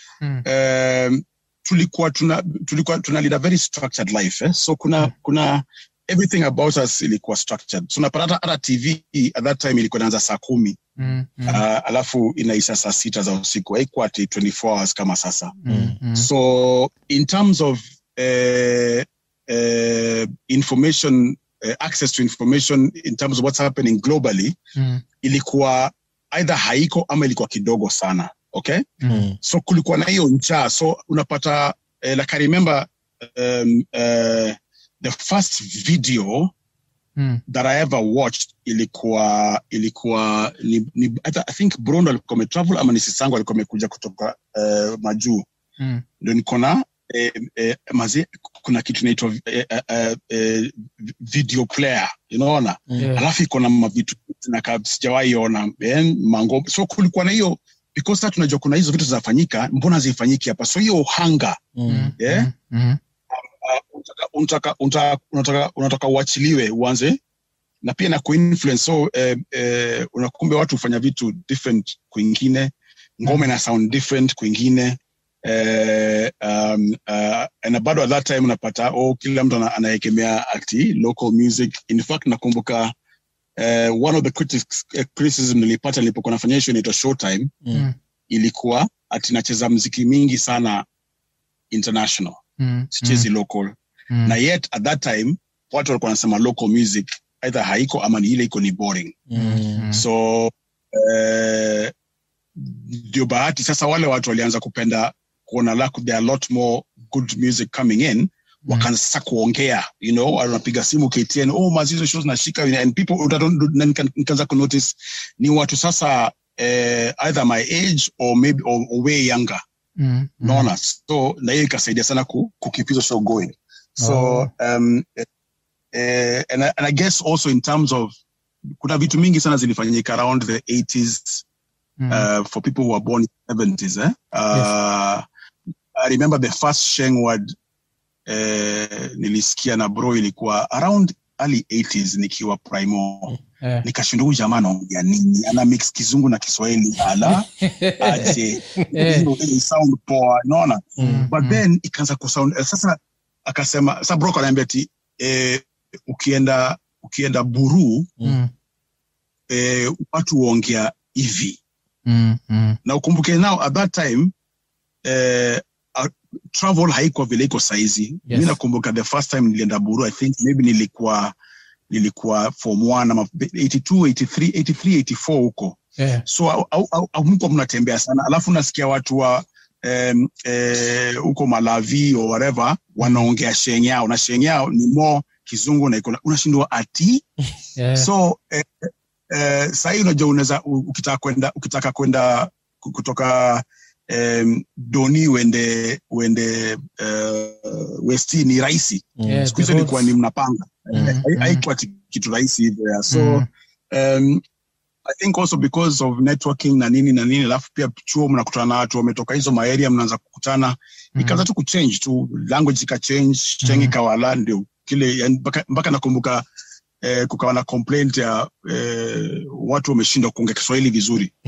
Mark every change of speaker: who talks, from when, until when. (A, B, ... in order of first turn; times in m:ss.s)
0:00.4-0:10.8 A
0:11.0-0:11.6 B
0:11.5-0:15.6 A
0:15.6-0:16.3 B
0:15.7-0:16.0 C
0:16.2-0:24.6 A
0:24.8-0:25.0 B
0:25.2-0:36.5 A
0:29.0-0:29.3 B
0:29.1-0:29.4 C
0:37.5-0:45.4 A
0:45.8-0:46.0 B
0:46.2-1:01.6 A
0:53.0-0:53.2 B
1:01.8-1:02.1 C
1:01.9-1:03.0 B
1:02.2-1:02.5 A
1:03.3-1:07.2 A
1:07.8-1:22.9 A
1:23.6-1:27.5 A
1:28.3-1:30.8 A
1:31.7-1:32.4 A
1:32.6-1:33.3 B
1:32.9-1:33.8 A
1:34.1-1:34.4 B
1:34.3-1:39.2 A
1:39.3-1:39.9 C
1:39.4-1:40.0 B
1:39.9-1:41.9 A
1:42.6-1:59.6 A
2:00.0-2:00.7 B
2:00.4-2:05.3 A
2:04.0-2:04.5 B
2:05.9-2:08.1 A
2:08.8-2:11.4 A
2:12.0-2:12.3 B
2:12.1-2:15.2 A
2:16.0-2:17.5 A
2:18.3-2:38.1 A
2:27.3-2:28.4 B
2:28.9-2:29.3 B
2:31.0-2:31.6 B
2:31.0-2:31.3 C
2:38.2-2:38.5 B
2:39.5-2:41.6 A
2:42.1-2:42.8 B
2:42.8-2:44.3 A
2:45.0-2:51.3 A
2:48.3-2:48.6 B
2:51.9-3:07.2 A
2:56.0-2:56.2 B
3:03.0-3:03.3 B
3:07.8-3:08.1 B
3:08.0-3:24.4 A
3:19.2-3:19.5 C
3:19.3-3:20.1 B
3:21.0-3:21.6 B
3:23.1-3:23.5 B
3:25.1-3:36.4 A
3:31.2-3:31.4 B
3:33.6-3:34.0 B
3:37.0-3:41.3 A